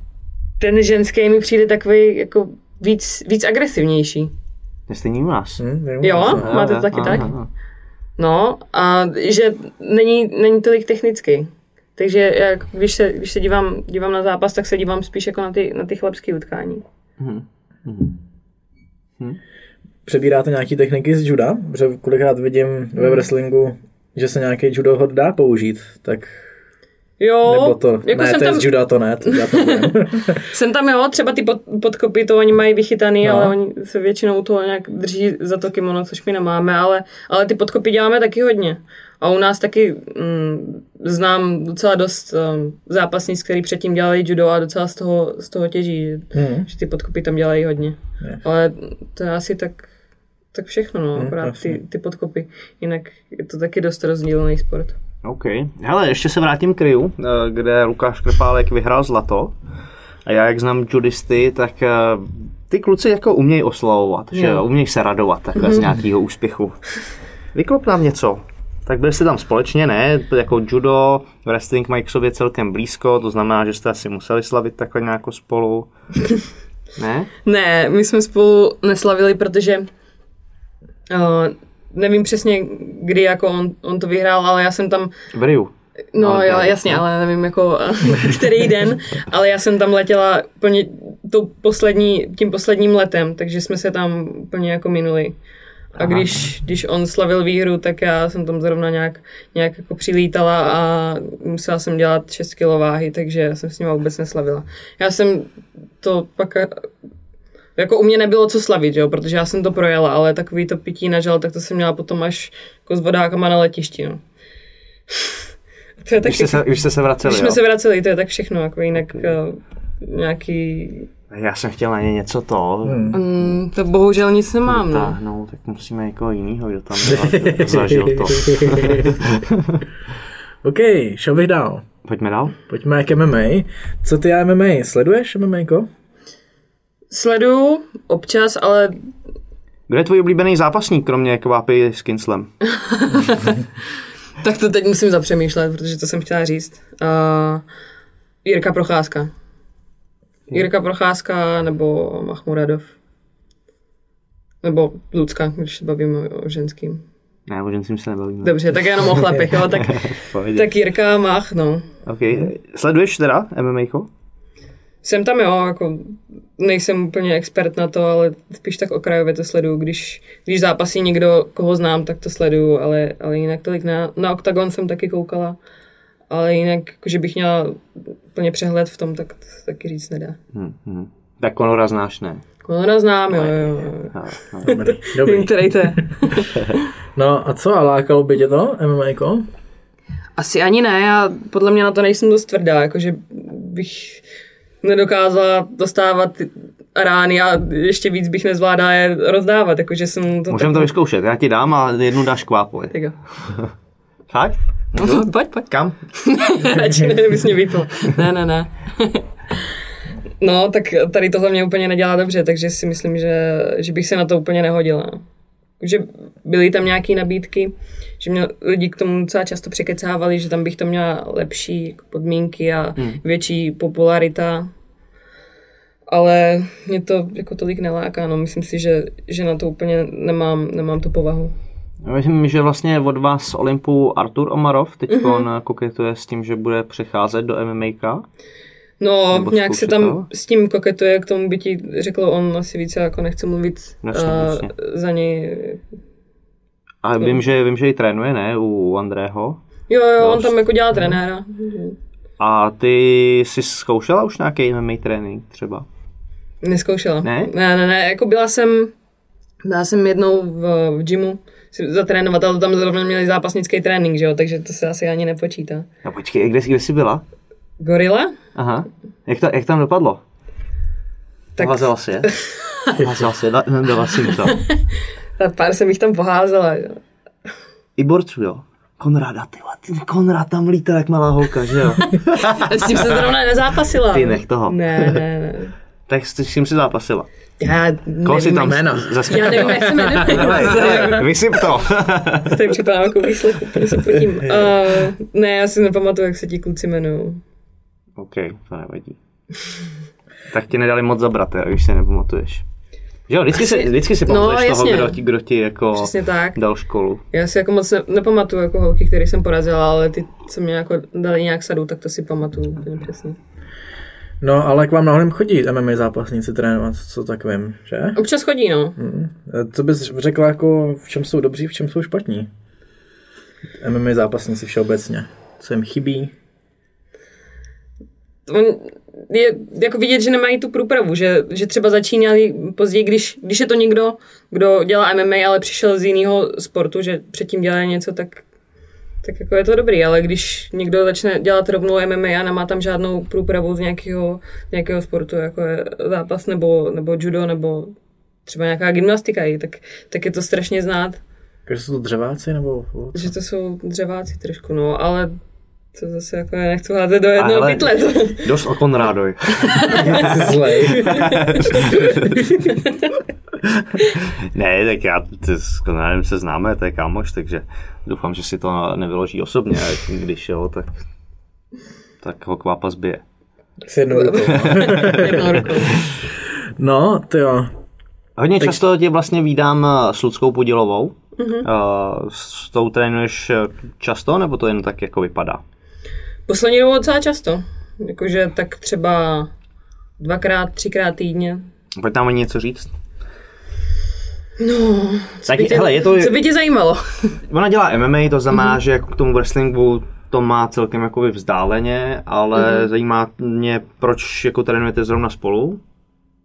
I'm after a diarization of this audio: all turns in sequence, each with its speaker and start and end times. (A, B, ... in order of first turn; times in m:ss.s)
0:00.6-0:04.3 A
0:04.9-0:05.6 B
0:05.6-0:07.2 C
0:06.0-0:07.3 A
0:06.2-0:07.5 B
0:08.2-0:16.8 A
0:17.2-0:18.2 B
0:20.1-0:26.5 C
0:27.2-0:28.7 A
0:27.4-0:30.4 C
0:29.2-0:49.9 A
0:33.2-0:33.6 C
0:46.3-0:46.7 C
0:50.5-0:55.0 A
0:51.2-0:51.8 C
0:55.2-0:59.5 B
1:00.2-1:07.0 B
1:04.3-1:04.6 A
1:07.5-1:15.9 B
1:17.0-1:17.3 B
1:17.4-1:19.9 A
1:21.1-1:25.1 A
1:25.3-1:27.0 B
1:26.1-1:35.4 A
1:36.0-1:46.9 A
1:36.0-1:36.3 B
1:47.8-1:54.2 A
1:55.1-1:55.4 A
1:56.0-1:56.6 A
1:56.2-1:57.6 B
1:57.2-2:01.1 A
2:01.3-2:03.5 B
2:02.8-2:03.2 C
2:03.1-2:05.2 A
2:04.7-2:09.8 B
2:07.1-2:09.2 C
2:10.6-2:11.9 C
2:12.0-2:12.6 B
2:12.7-2:15.9 C
2:17.1-2:19.0 A
2:19.9-2:22.5 B
2:22.7-2:23.7 A
2:24.4-2:27.6 A
2:28.4-2:29.3 A
2:30.5-2:32.9 A
2:34.6-2:37.0 A
2:37.5-2:38.8 B
2:38.4-2:41.9 A
2:39.7-2:40.7 B
2:42.1-2:44.1 B
2:45.0-2:55.6 A
2:56.3-3:00.4 A
3:00.5-3:02.4 B
3:02.6-3:04.1 A
3:03.3-3:04.9 B
3:04.6-3:06.1 C
3:04.6-3:06.8 A
3:07.2-3:09.5 C
3:10.4-3:14.2 A
3:14.8-3:20.9 A
3:20.5-3:23.7 B
3:24.3-3:26.0 B
3:25.0-3:29.3 A
3:30.4-3:35.2 A
3:35.8-3:44.7 A
3:46.1-3:51.5 A
3:52.0-3:58.3 B
3:55.1-3:55.5 A
3:59.0-4:05.8 A
3:59.3-4:00.3 B
4:04.0-4:04.7 B
4:07.0-4:09.6 B
4:09.9-4:12.0 A
4:10.2-4:10.5 B
4:12.4-4:15.9 B
4:16.6-4:18.9 A
4:17.2-4:17.5 B
4:19.6-4:25.9 A
4:26.0-4:27.2 B
4:27.8-4:28.4 A
4:28.6-4:30.2 B
4:31.6-4:33.0 A
4:31.6-4:32.3 B
4:33.0-4:34.6 B
4:34.4-4:37.0 A
4:38.0-4:42.7 B
4:42.0-4:45.8 A
4:44.1-4:44.8 B
4:46.1-4:47.3 B
4:47.6-4:51.3 A
4:48.2-4:52.6 B
4:48.7-4:51.1 C
4:52.4-4:57.4 A
4:58.2-4:59.2 B
5:00.5-5:02.6 B
5:03.3-5:07.2 B
5:03.6-5:05.2 A
5:06.0-5:06.6 A
5:07.3-5:13.4 A
5:14.4-5:18.2 C
5:18.2-5:19.0 A
5:19.0-5:22.5 C
5:23.8-5:26.3 C
5:28.5-5:38.4 A
5:39.2-5:47.9 A
5:48.5-5:51.2 A
5:51.7-5:53.3 C
5:53.1-5:55.4 A
5:55.9-5:58.5 A
5:57.4-6:00.2 B
5:59.7-6:03.2 A
6:00.0-6:01.3 C
6:01.0-6:02.5 B
6:04.1-6:11.0 B
6:12.2-6:13.2 B
6:13.9-6:17.7 C
6:14.1-6:16.0 A
6:14.6-6:15.3 B
6:18.4-6:25.6 B
6:21.4-6:21.7 A
6:26.5-6:29.5 A
6:30.2-6:31.6 A
6:32.0-6:32.9 B
6:34.6-6:37.4 A
6:35.5-6:36.4 B
6:37.5-6:45.8 B
6:42.6-6:42.9 A